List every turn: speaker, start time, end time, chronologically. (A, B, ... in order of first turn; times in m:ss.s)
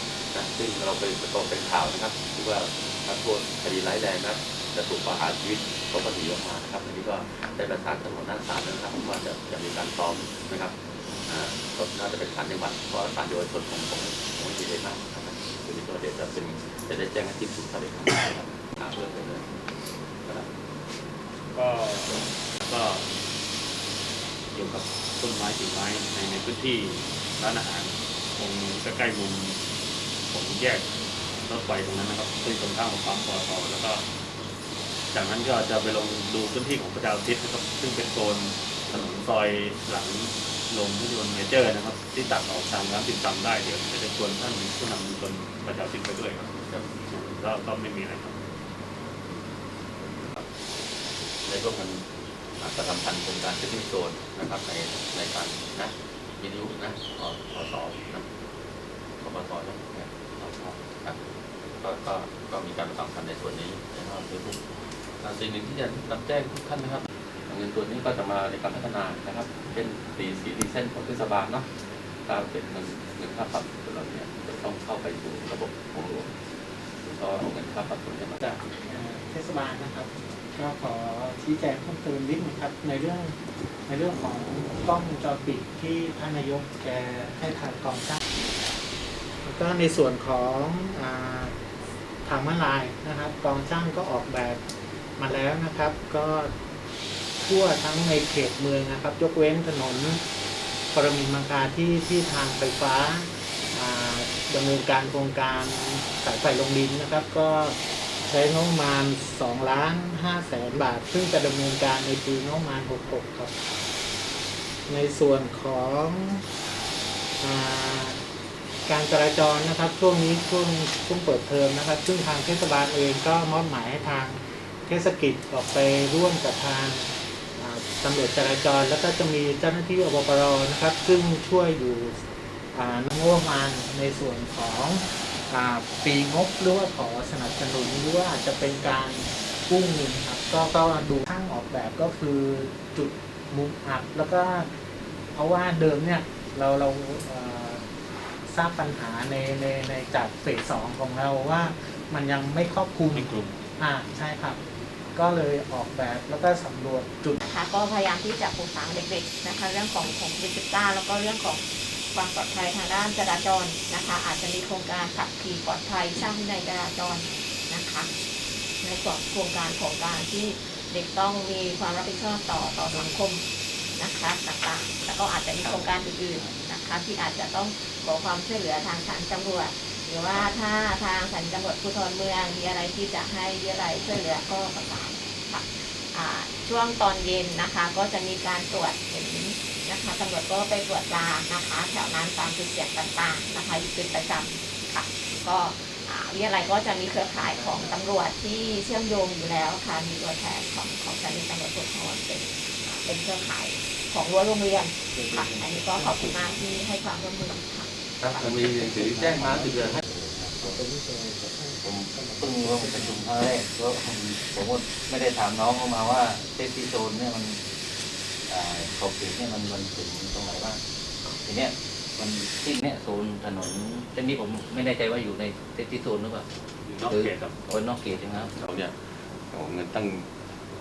0:00.3-0:10.8 A
0:11.3-0:19.5 A
0:21.5-0:23.1 B
0:24.5-0:29.6 B
0:30.3-0:30.9 B
0:31.4-0:34.0 B
0:35.1-0:46.5 B
0:46.6-0:46.9 A
0:47.1-0:48.4 B
0:50.0-0:50.5 A
0:51.4-0:52.1 A
0:52.6-0:58.2 A
0:59.2-1:01.2 A
1:01.8-1:04.6 A
1:05.2-1:11.7 A
1:12.3-1:16.3 A
1:17.0-1:18.7 A
1:18.4-1:23.4 C
1:23.9-1:28.2 C
1:29.4-1:31.6 C
1:32.2-1:34.6 C
1:35.2-1:36.5 C
1:37.4-1:40.2 C
1:40.9-1:47.8 C
1:48.3-1:53.5 C
1:54.9-1:56.4 C
1:57.4-1:58.2 C
1:58.9-2:12.2 C
2:12.7-2:24.7 C
2:25.3-2:27.8 C
2:28.5-2:34.6 C
2:33.1-2:33.6 B
2:35.1-2:37.4 C
2:37.4-2:48.1 D
2:48.8-2:53.4 D
2:54.0-3:27.9 D
3:17.4-3:18.0 E
3:25.1-3:26.5 C
3:28.2-3:30.0 A
3:28.4-3:30.8 E
3:30.6-3:33.2 C
3:31.8-3:37.6 E
3:38.5-3:46.5 E
3:46.9-3:47.5 B
3:47.0-3:48.5 E
3:48.6-3:49.0 A
3:49.5-3:50.3 A